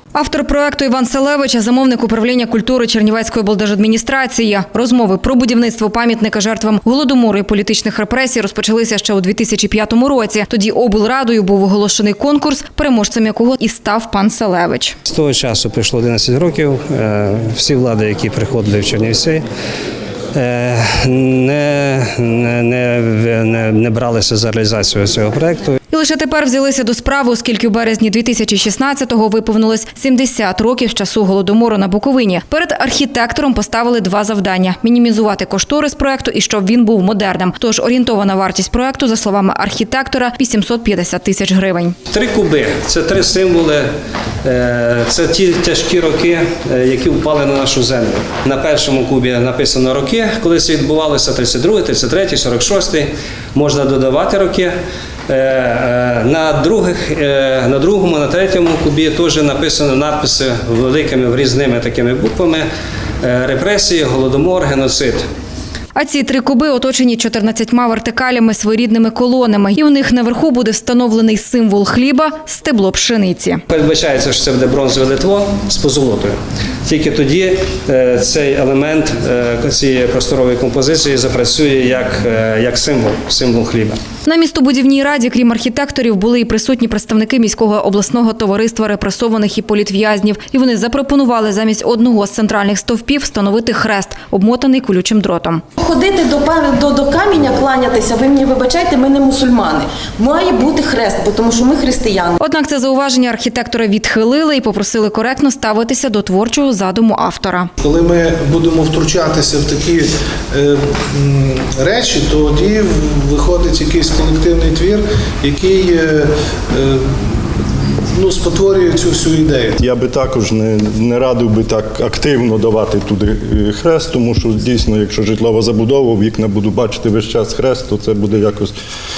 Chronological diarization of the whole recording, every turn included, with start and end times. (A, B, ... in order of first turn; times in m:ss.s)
0:00.1-0:15.0 A
0:15.1-0:19.4 B
0:20.3-0:25.7 B
0:25.9-0:42.0 A
0:42.1-0:43.9 B
0:44.4-0:54.8 B
0:55.3-1:02.7 B
1:03.2-1:05.2 B
1:06.0-1:13.6 A
1:13.7-1:24.0 B
1:24.3-1:35.6 A
1:35.8-1:42.4 C
1:42.4-1:47.7 A
1:47.8-1:57.2 D
1:58.1-1:59.8 D
1:59.8-2:08.7 E